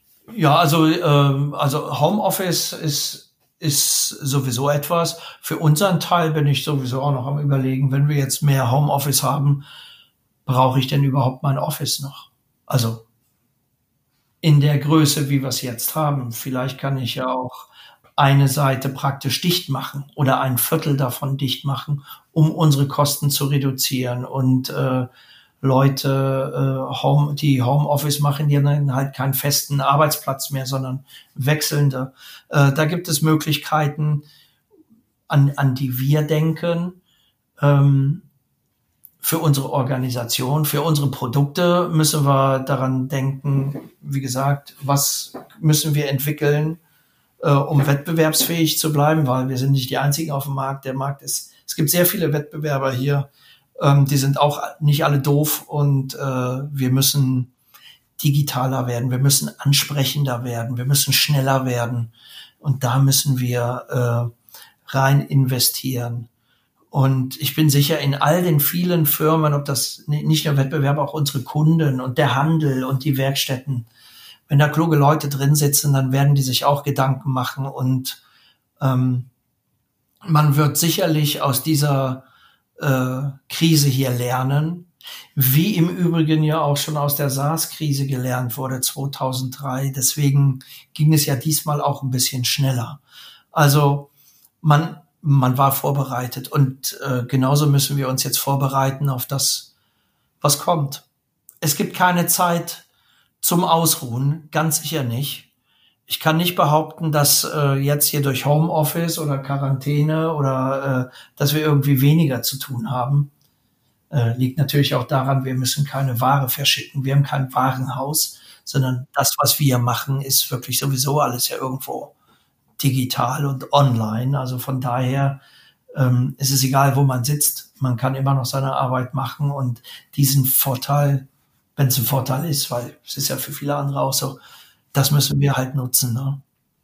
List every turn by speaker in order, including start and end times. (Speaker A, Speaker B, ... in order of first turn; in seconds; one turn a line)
Speaker A: 0.3-9.7
Speaker A: 10.5-13.0
Speaker A: 14.4-25.1
Speaker A: 25.6-34.3
Speaker A: 35.3-37.0
Speaker A: 37.6-38.3
Speaker A: 39.2-46.8
Speaker A: 47.4-57.5
Speaker A: 58.2-64.3
Speaker A: 64.9-66.3
Speaker A: 66.9-73.9
Speaker A: 74.5-78.2
Speaker A: 78.8-79.3
Speaker A: 80.2-82.3
Speaker A: 82.8-93.0
Speaker A: 93.5-99.7
Speaker A: 100.4-101.0
Speaker A: 101.6-102.9
Speaker A: 103.4-105.5
Speaker A: 106.1-113.3
Speaker A: 114.1-122.1
Speaker A: 122.8-125.4
Speaker A: 125.9-134.4
Speaker A: 134.9-136.4